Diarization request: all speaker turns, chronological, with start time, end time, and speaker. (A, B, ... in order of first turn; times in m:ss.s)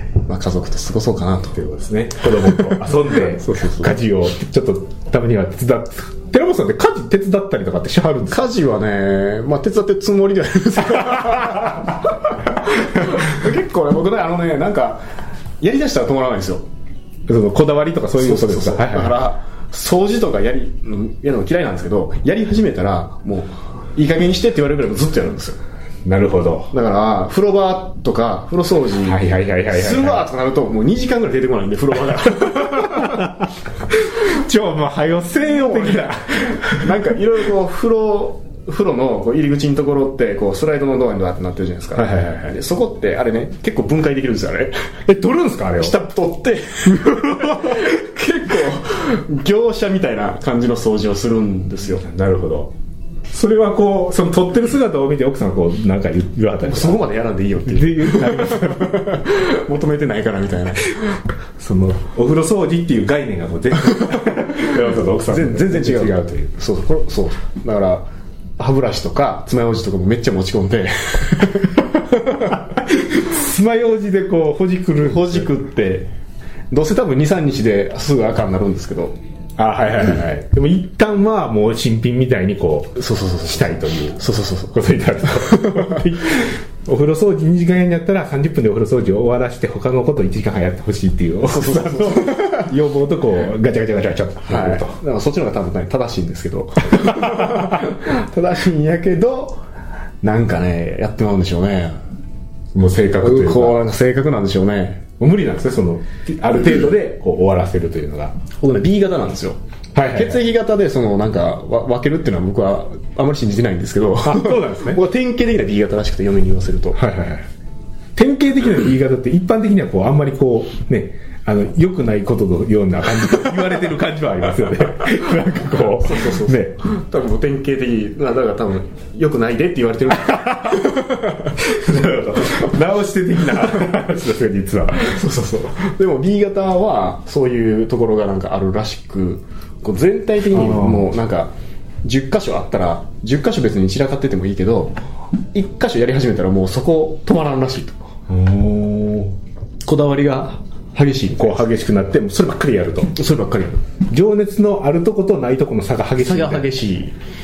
0:00.2-0:01.6 A
0:01.5-0:08.4 B
0:02.4-0:04.0 A
0:08.3-0:15.0 A
0:15.6-0:16.6 A
0:17.3-0:19.2 B
0:18.2-0:25.6 A
0:26.0-0:26.7 B
0:26.7-0:29.2 A
0:29.0-0:30.2 B
0:29.7-0:33.3 A
0:32.8-0:33.3 B
0:34.1-0:37.2 B
0:35.5-0:36.2 A
0:36.7-0:44.9 A
0:42.0-0:42.6 B
0:45.0-0:46.0 B
0:45.8-0:52.0 A
0:52.0-0:52.7 B
0:53.3-0:57.0 B
0:56.6-1:01.0 A
0:57.7-0:59.1 B
1:01.0-1:06.5 B
1:05.0-1:08.1 A
1:08.6-1:12.5 A
1:12.6-1:15.4 B
1:15.0-1:16.1 A
1:16.7-1:19.2 A
1:19.6-1:35.0 B
1:23.0-1:26.0 A
1:31.4-1:32.7 A
1:34.4-1:39.6 A
1:36.9-1:37.6 B
1:40.2-1:42.0 A
1:42.7-1:43.8 B
1:43.2-1:45.0 A
1:45.2-1:48.4 B
1:48.6-1:57.0 A
1:49.9-1:50.4 B
1:54.2-1:55.0 B
1:56.9-1:57.4 B
1:58.2-2:06.8 B
2:05.9-2:11.5 A
2:10.2-2:15.2 B
2:15.0-2:21.5 A
2:20.5-2:21.1 B
2:22.0-2:25.0 A
2:25.5-2:28.0 A
2:28.3-2:29.4 B
2:29.8-2:31.6 A
2:31.4-2:33.1 B
2:33.1-2:33.8 A
2:34.1-2:36.7 B
2:36.2-2:37.2 A